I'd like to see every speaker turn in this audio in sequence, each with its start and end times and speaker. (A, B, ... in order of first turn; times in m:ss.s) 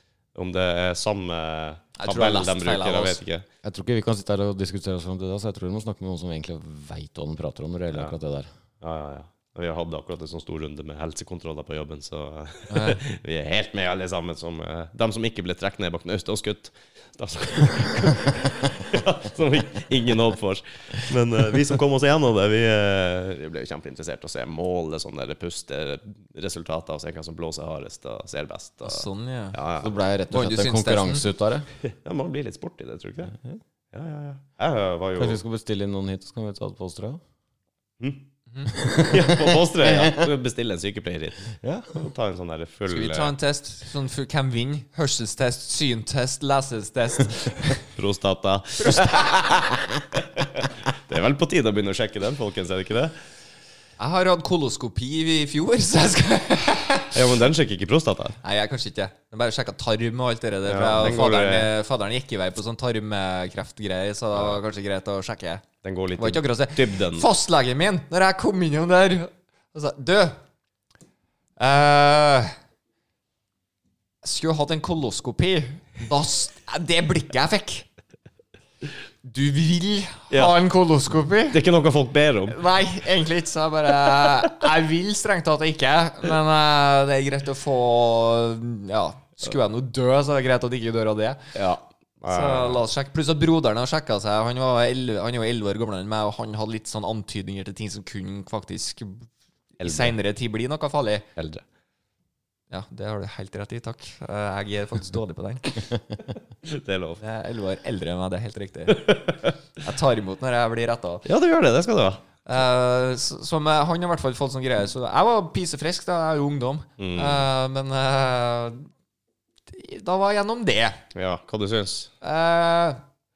0:00.3-0:03.4 A
0:02.0-0:03.2 B
0:03.6-0:08.5 C
0:08.8-0:29.9 A
0:12.7-0:13.0 B
0:28.8-0:29.6 B
0:29.8-0:31.7 C
0:30.3-0:31.2 B
0:31.8-0:33.3 A
0:33.9-0:35.4 A
0:35.2-0:37.2 C
0:38.0-0:38.2 A
0:38.7-0:40.2 C
0:39.0-0:43.3 A
0:41.6-0:42.0 C
0:42.9-0:47.8 B
0:47.9-0:49.4 A
0:48.8-0:49.6 B
0:50.4-0:53.1 A
0:54.0-0:57.2 B
0:57.1-0:58.4 A
0:58.4-1:05.6 B
1:00.6-1:01.7 A
1:04.3-1:04.6 A
1:05.8-1:07.3 A
1:06.2-1:10.4 B
1:11.6-1:12.5 B
1:14.2-1:17.9 B
1:19.2-1:21.6 B
1:21.5-1:22.6 A
1:22.5-1:31.5 B
1:31.5-1:32.8 A
1:32.3-1:39.3 B
1:39.8-1:41.2 B
1:39.8-1:40.1 A
1:41.4-1:41.6 A
1:42.7-1:45.9 B
1:46.6-1:47.2 A
1:47.2-1:49.1 B
1:48.9-1:49.5 A
1:49.8-1:51.2 B
1:51.2-1:52.2 A
1:52.4-1:58.9 B
1:57.0-1:57.5 A
1:59.7-2:01.0 B
2:01.1-2:02.1 A
2:02.2-2:03.0 B